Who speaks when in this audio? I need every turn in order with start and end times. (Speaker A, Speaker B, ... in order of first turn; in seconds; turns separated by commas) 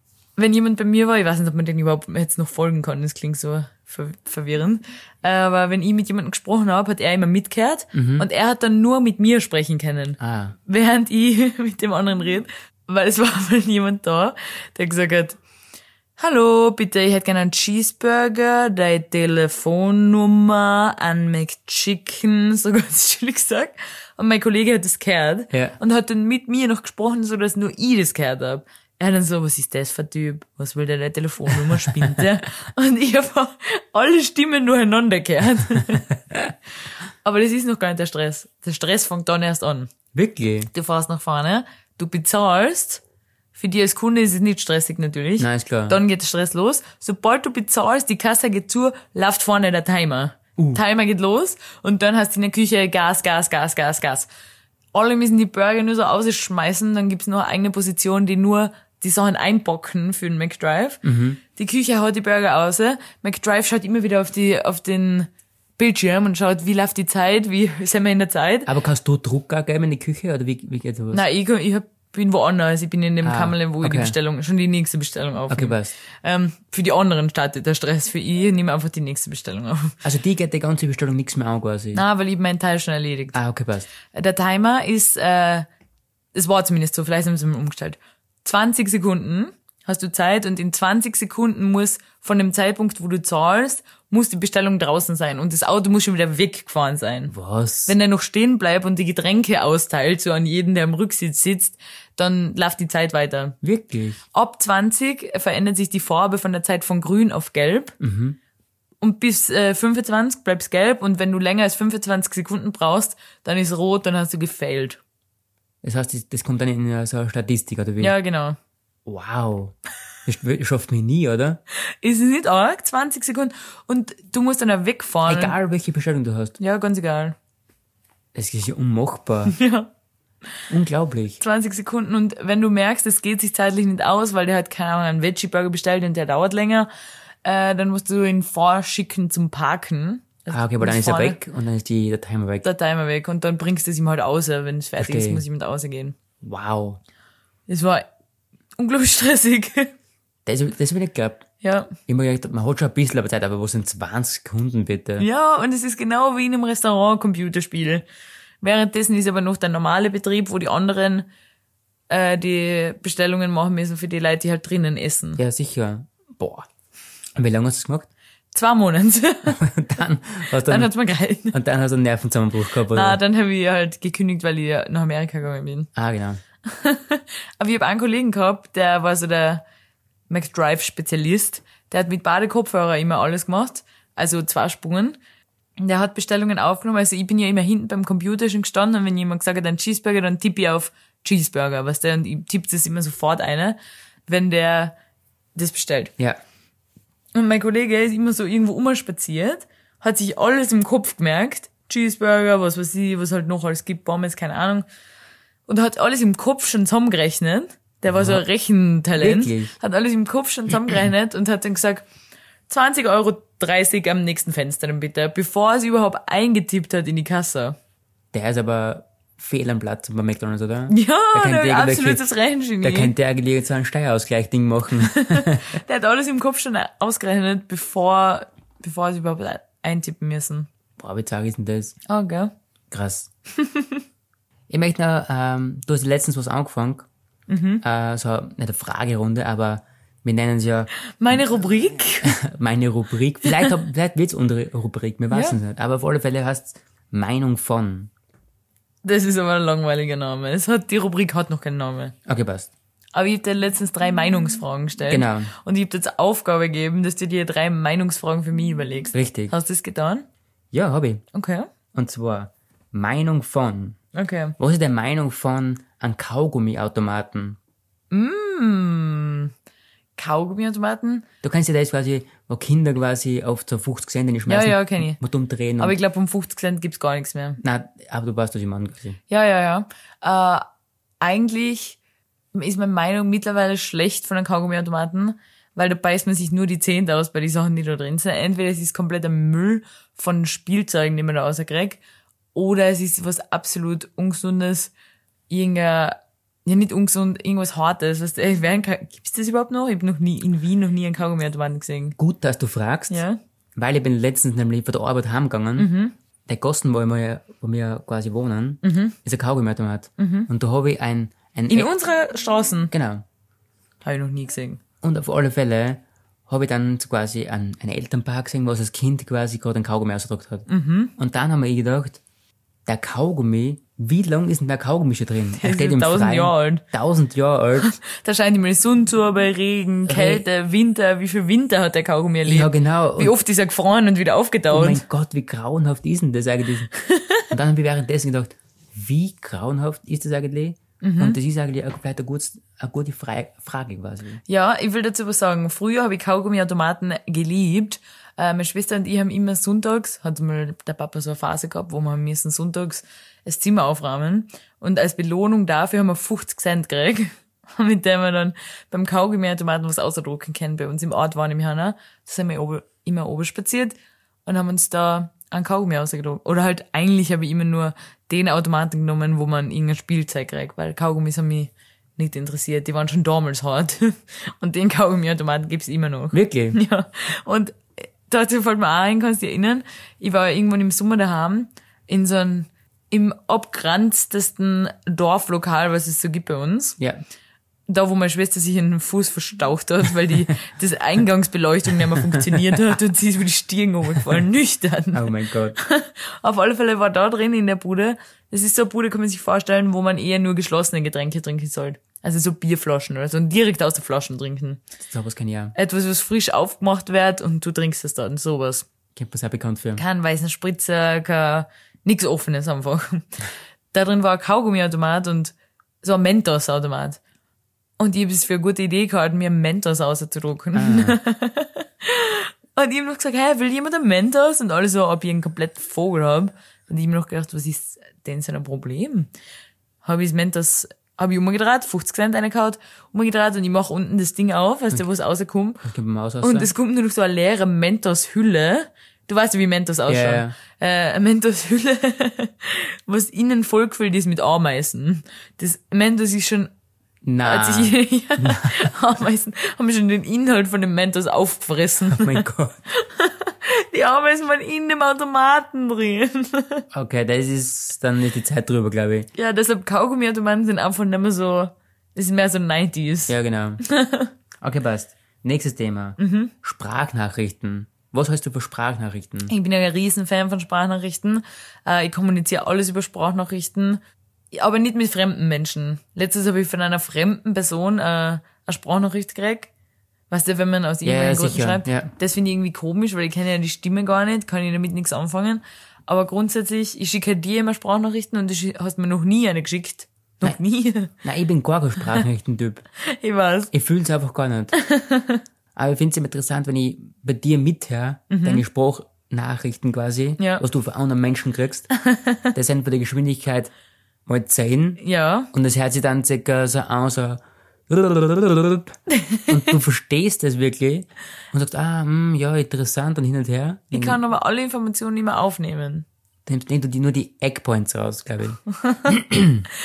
Speaker A: 0.4-15.4, Speaker B: 7.9-8.2, Speaker B: 10.2-10.6, Speaker A: 16.2-36.1, Speaker A: 37.2-39.9, Speaker B: 40.1-40.7, Speaker A: 40.7-43.0, Speaker A: 43.5-54.3, Speaker B: 45.4-46.0, Speaker B: 50.6-50.8, Speaker A: 54.9-61.0, Speaker B: 61.0-61.4, Speaker A: 61.5-68.7, Speaker B: 68.7-71.2, Speaker A: 71.1-80.0, Speaker B: 73.2-74.1, Speaker B: 75.5-75.9, Speaker B: 80.0-82.0, Speaker A: 81.9-83.4, Speaker B: 83.3-83.9, Speaker A: 84.1-85.7, Speaker A: 86.3-97.3, Speaker B: 97.3-97.9, Speaker A: 97.9-103.6, Speaker B: 103.6-104.2, Speaker A: 104.3-108.0, Speaker B: 108.0-108.4, Speaker A: 109.0-115.0, Speaker B: 115.8-118.1, Speaker A: 118.0-118.6, Speaker B: 119.1-121.6, Speaker A: 122.0-125.6, Speaker B: 125.3-126.5, Speaker A: 126.6-127.4, Speaker B: 128.3-129.6, Speaker A: 129.5-129.9, Speaker B: 130.7-131.4, Speaker A: 131.4-136.9, Speaker A: 137.4-141.4, Speaker B: 140.5-142.7, Speaker A: 142.6-146.2, Speaker B: 145.0-145.4, Speaker B: 146.4-147.0, Speaker A: 147.7-148.1, Speaker A: 148.8-149.9, Speaker B: 150.5-151.5, Speaker A: 151.6-151.9, Speaker B: 152.1-155.3, Speaker A: 155.2-158.0, Speaker A: 158.6-161.3, Speaker A: 162.1-165.4, Speaker B: 165.4-166.7, Speaker B: 167.4-168.1, Speaker A: 168.5-169.6, Speaker B: 169.5-170.9, Speaker A: 170.7-171.6, Speaker B: 171.5-173.2, Speaker A: 172.9-175.9, Speaker B: 175.9-176.4, Speaker A: 176.7-179.6, Speaker A: 180.3-185.2, Speaker A: 185.8-195.0, Speaker A: 195.6-196.1, Speaker A: 197.3-204.9, Speaker A: 205.7-212.1, Speaker B: 208.1-208.4, Speaker B: 209.2-209.7, Speaker A: 212.7-217.8, Speaker B: 218.3-222.2, Speaker A: 220.9-223.1, Speaker B: 222.8-225.8, Speaker A: 225.1-230.7, Speaker B: 231.0-232.0, Speaker A: 232.1-232.5, Speaker B: 232.9-233.3, Speaker A: 233.6-234.0, Speaker B: 234.7-237.1, Speaker A: 237.5-237.8, Speaker B: 237.8-240.9, Speaker A: 241.2-242.4, Speaker B: 242.2-248.1, Speaker A: 245.3-245.6, Speaker A: 249.0-252.1, Speaker B: 252.3-252.7, Speaker A: 253.1-260.2, Speaker B: 255.1-255.5, Speaker B: 259.1-259.5, Speaker B: 260.7-261.2, Speaker A: 261.3-261.7, Speaker B: 261.9-264.0, Speaker A: 264.1-264.6, Speaker B: 264.6-267.6, Speaker A: 268.1-269.5, Speaker A: 270.2-271.3, Speaker B: 271.4-276.0, Speaker A: 274.5-275.2, Speaker A: 275.8-277.6, Speaker B: 277.6-279.2, Speaker A: 279.3-280.6, Speaker A: 281.2-282.0, Speaker A: 282.5-292.0, Speaker A: 292.5-294.9, Speaker A: 295.5-302.1, Speaker B: 302.2-303.2, Speaker A: 303.1-303.4, Speaker B: 303.8-305.9, Speaker A: 305.8-306.1, Speaker B: 306.5-311.9, Speaker A: 308.8-309.1, Speaker A: 310.2-310.5, Speaker A: 311.7-312.9, Speaker B: 312.9-313.2, Speaker A: 314.0-314.8, Speaker B: 315.0-320.6, Speaker A: 320.7-321.1, Speaker B: 321.2-322.2, Speaker B: 322.9-327.9, Speaker A: 325.6-326.8, Speaker A: 327.8-335.0, Speaker B: 330.1-330.4, Speaker B: 332.5-333.4, Speaker B: 334.7-336.9, Speaker A: 336.9-337.4, Speaker B: 337.5-344.4, Speaker A: 341.0-341.4, Speaker A: 344.5-387.0, Speaker B: 376.3-376.8, Speaker A: 387.9-404.8, Speaker B: 395.1-395.8, Speaker B: 405.0-405.8, Speaker A: 405.8-408.9, Speaker B: 409.1-410.0, Speaker A: 410.0-413.3, Speaker A: 413.9-417.2, Speaker A: 418.0-429.3, Speaker B: 420.8-421.2, Speaker A: 430.0-435.8, Speaker B: 435.8-436.7, Speaker A: 436.4-446.7, Speaker B: 440.1-440.6, Speaker B: 447.2-448.9, Speaker A: 447.4-456.8, Speaker B: 452.1-452.8, Speaker B: 456.9-459.3, Speaker A: 459.4-464.3, Speaker B: 463.3-463.8, Speaker B: 464.6-469.5, Speaker A: 466.2-466.5, Speaker A: 469.5-474.0, Speaker A: 474.5-479.7, Speaker A: 480.3-491.1, Speaker B: 481.0-482.1, Speaker B: 491.2-492.9, Speaker A: 493.1-493.7, Speaker B: 493.7-494.8, Speaker A: 494.7-495.4, Speaker B: 495.8-501.9, Speaker A: 498.3-498.6, Speaker A: 500.4-500.6, Speaker A: 502.1-502.5, Speaker B: 502.5-503.7, Speaker B: 504.3-505.0, Speaker A: 505.0-505.5, Speaker B: 505.5-509.0, Speaker A: 509.1-509.8, Speaker B: 509.5-514.2, Speaker A: 513.9-516.1, Speaker B: 516.5-519.6, Speaker A: 518.8-519.1